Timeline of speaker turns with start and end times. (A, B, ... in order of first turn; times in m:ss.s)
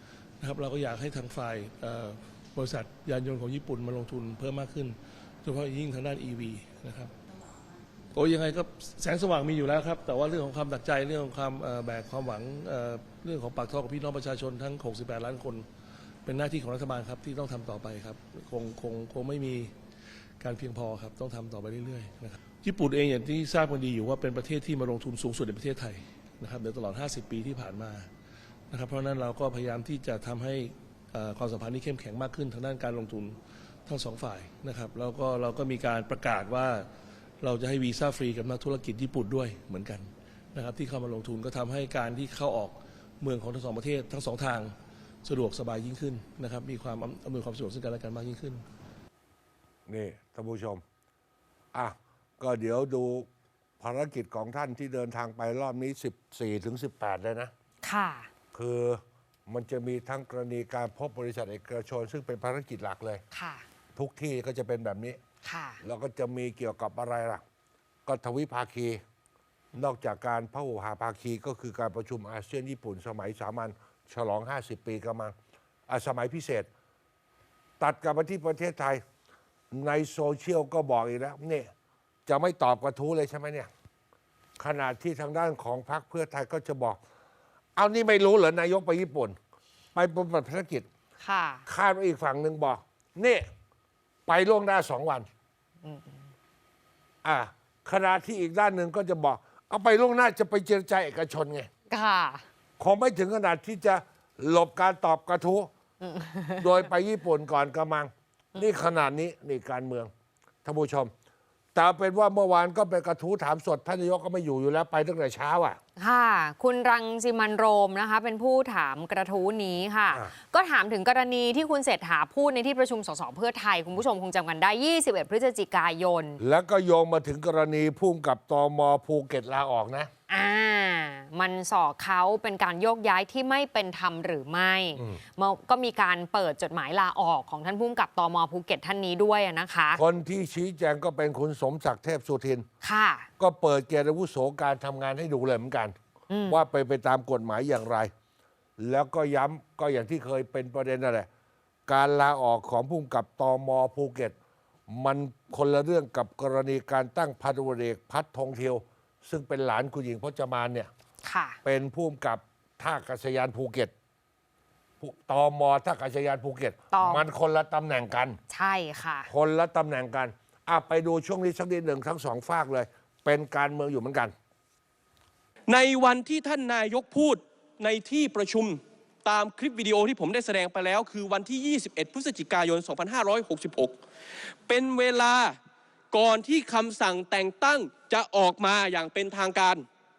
0:00.4-0:07.1 A
0:08.1-0:15.6 A
0:16.2-0:19.7 A
0:20.4-0:28.1 A
0:28.7-0:36.9 A
0:37.4-0:44.7 A
0:45.2-0:48.6 A
0:49.9-0:50.8 B
0:51.7-0:53.3 B
0:53.8-0:57.5 B
0:57.8-0:58.3 C
0:58.5-1:03.2 B
1:03.3-1:03.6 C
1:04.0-1:05.2 B
1:05.4-1:05.8 C
1:05.8-1:07.4 B
1:08.1-1:09.0 B
1:09.8-1:15.3 B
1:15.9-1:16.7 B
1:17.8-1:19.0 B
1:19.7-1:21.7 B
1:22.2-1:23.7 B
1:24.6-1:27.0 B
1:27.8-1:29.4 B
1:29.9-1:30.9 B
1:31.2-1:31.6 C
1:31.7-1:33.5 B
1:34.3-1:35.3 B
1:35.8-1:36.2 C
1:37.2-1:41.7 B
1:41.9-1:42.4 C
1:42.8-1:45.7 B
1:46.0-1:46.7 C
1:46.6-1:50.1 B
1:50.6-1:51.1 B
1:51.8-1:55.8 B
1:56.0-2:06.4 C
2:06.4-2:10.1 B
2:10.3-2:20.0 C
2:19.9-2:22.6 B
2:22.8-2:23.3 C
2:23.4-2:25.9 B
2:26.3-2:26.6 C
2:26.5-2:28.1 B
2:28.8-2:31.3 B
2:31.9-2:34.3 B
2:34.9-2:40.9 B
2:41.2-2:41.6 C
2:41.6-2:43.9 B
2:45.0-2:48.4 B
2:46.9-2:47.2 C
2:48.5-2:49.3 C
2:49.3-2:54.3 B
2:55.7-3:04.0 D
3:04.7-3:05.6 D
3:06.1-3:09.9 D